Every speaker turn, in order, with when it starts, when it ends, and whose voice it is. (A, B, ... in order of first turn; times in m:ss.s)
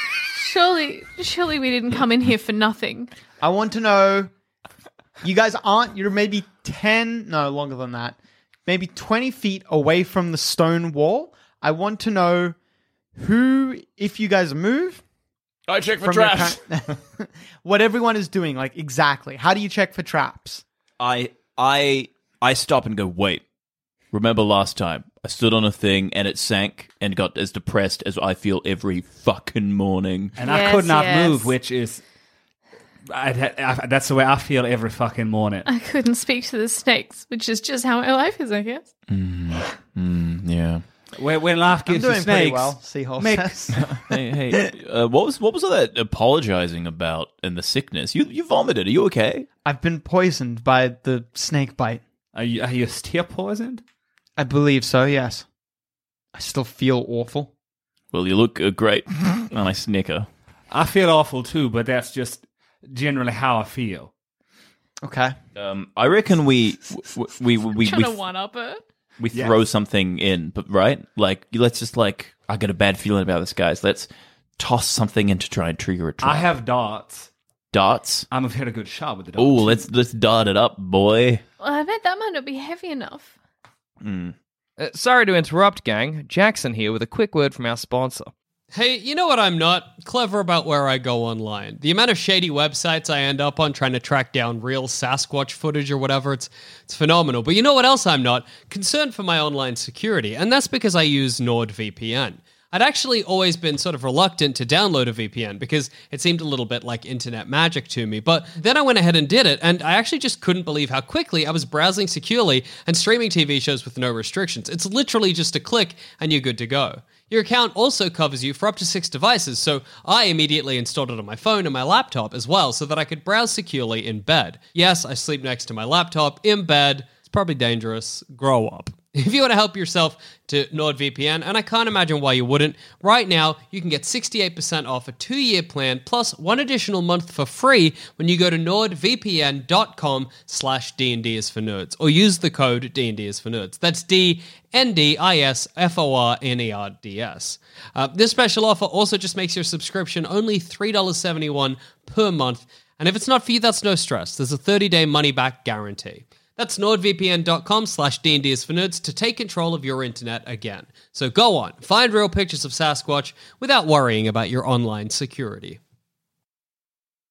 0:00.2-0:03.1 A
0:03.4-0:04.3 B
0:05.2-0:12.6 B
0:13.2-0:15.0 B
0:15.7-0:16.6 C
0:16.0-0:20.6 B
0:21.0-0:23.4 C
0:24.1-0:30.3 C
0:30.4-0:32.0 D
0:30.4-0:31.5 A
0:33.1-0:35.6 D
0:35.6-0:38.9 A
0:39.1-0:40.8 C
0:41.2-0:43.6 D
0:41.8-0:43.9 B
0:43.8-0:49.5 C
0:49.6-0:52.0 B
0:52.3-0:53.8 D
0:54.4-0:55.4 B
0:56.3-0:57.5 B
0:58.1-1:00.3 C
1:00.7-1:04.1 D
1:05.0-1:05.4 B
1:05.6-1:08.1 C
1:07.8-1:08.8 A
1:09.2-1:16.5 C
1:16.2-1:17.3 D
1:17.7-1:18.3 C
1:18.3-1:19.8 D
1:19.4-1:21.4 C
1:21.6-1:23.3 A
1:24.0-1:24.3 C
1:24.8-1:28.3 E
1:28.7-2:45.8 F